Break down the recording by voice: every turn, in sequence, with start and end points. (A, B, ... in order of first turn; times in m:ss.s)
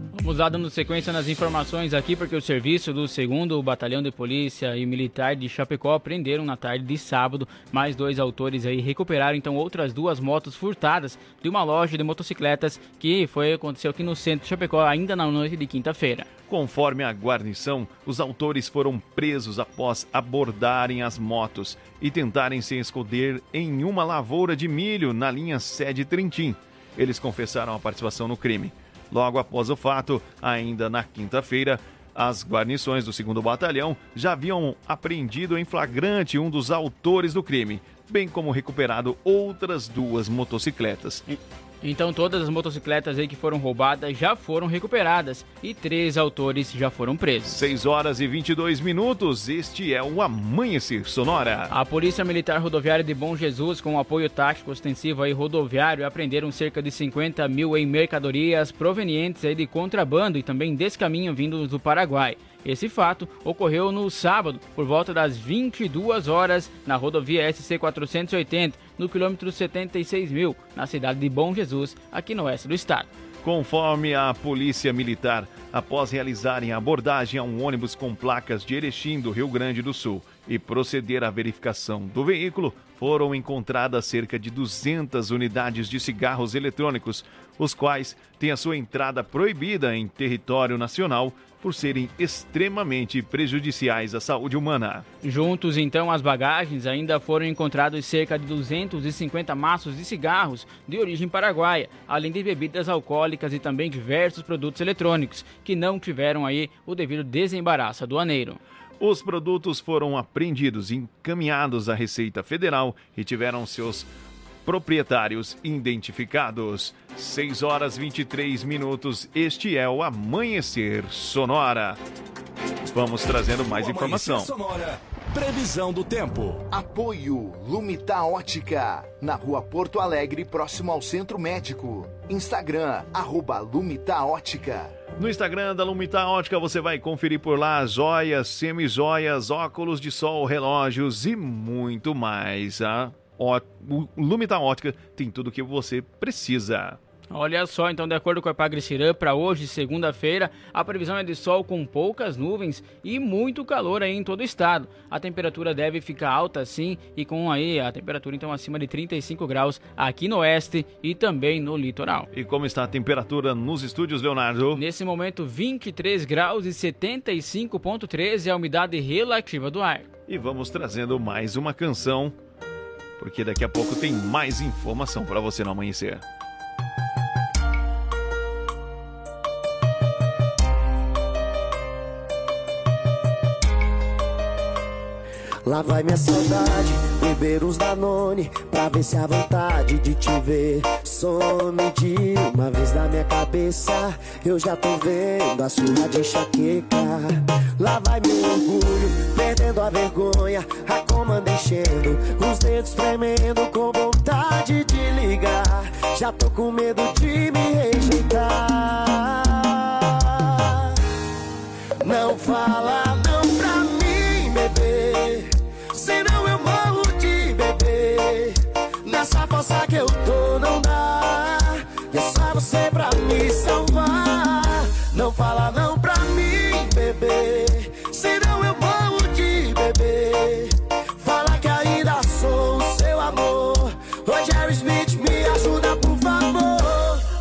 0:00.1-0:16.3 A
0:16.5-0:41.2 B
0:41.3-0:47.7 A
0:47.5-0:51.7 B
0:51.7-1:13.1 A
1:13.4-1:35.0 B
1:35.2-1:48.6 A
1:49.0-1:54.1 B
1:54.7-2:02.0 B
2:02.9-2:04.5 B
2:03.7-2:06.6 C
2:06.7-2:14.9 D
2:15.2-2:27.0 B
2:27.3-2:42.3 A
2:42.3-2:44.8 B
2:44.8-2:50.1 A
2:50.3-2:52.4 B
2:53.2-2:56.2 B
3:05.7-3:30.7 E
3:32.0-3:57.2 E